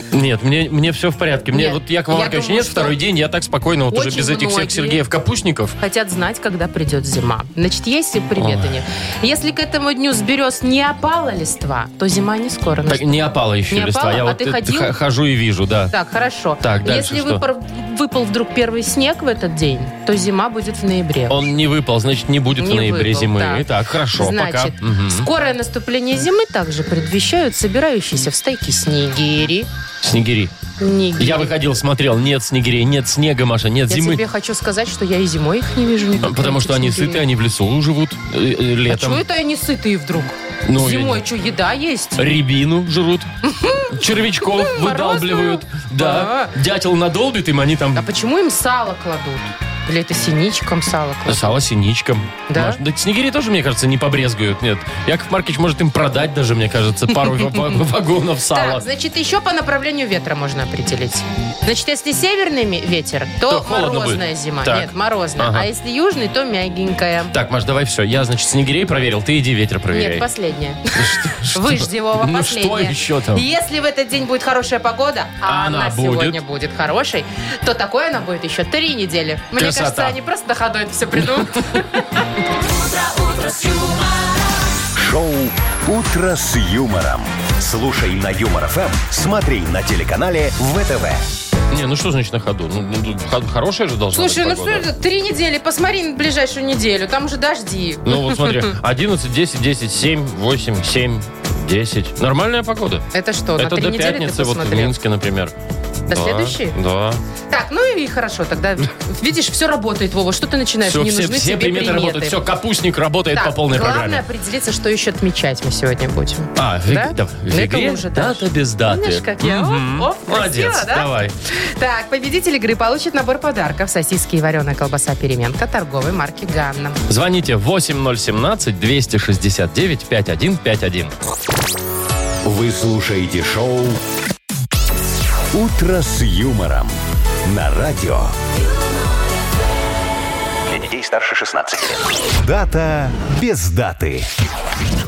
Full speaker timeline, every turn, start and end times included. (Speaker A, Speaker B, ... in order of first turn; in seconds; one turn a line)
Speaker A: 0.1-5.8
Speaker B: 1.5-3.0
Speaker B: 3.9-5.0
Speaker B: 5.8-14.9
Speaker A: 8.4-8.8
Speaker A: 12.9-15.9
Speaker B: 15.9-21.4
Speaker A: 16.6-17.4
Speaker A: 21.3-25.3
Speaker B: 22.6-29.7
Speaker A: 30.0-30.5
Speaker B: 30.8-31.5
Speaker A: 31.2-34.2
Speaker B: 33.9-37.2
Speaker A: 36.2-39.2
Speaker B: 38.9-42.2
Speaker A: 40.7-41.2
Speaker A: 42.2-43.3
Speaker B: 43.4-46.5
Speaker A: 43.9-48.0
Speaker B: 48.0-51.6
Speaker A: 51.3-58.9
Speaker B: 52.5-52.8
Speaker B: 58.5-67.3
Speaker A: 63.5-65.7
Speaker A: 67.3-70.3
Speaker B: 69.9-82.2
Speaker A: 70.9-73.5
Speaker A: 75.5-76.4
Speaker A: 79.6-80.2
Speaker C: 82.5-84.5
Speaker D: 85.0-91.2
Speaker A: 91.7-94.9
Speaker B: 94.1-98.7
Speaker A: 98.1-103.1
Speaker B: 103.1-104.9
Speaker A: 103.6-105.5
Speaker B: 106.1-106.8
Speaker A: 106.1-107.2
Speaker B: 107.5-112.4
Speaker A: 110.8-114.2
Speaker B: 113.3-127.0
Speaker A: 116.6-121.4
Speaker A: 127.1-131.1
Speaker D: 132.4-134.0
Speaker D: 135.5-138.3
Speaker D: 140.7-144.3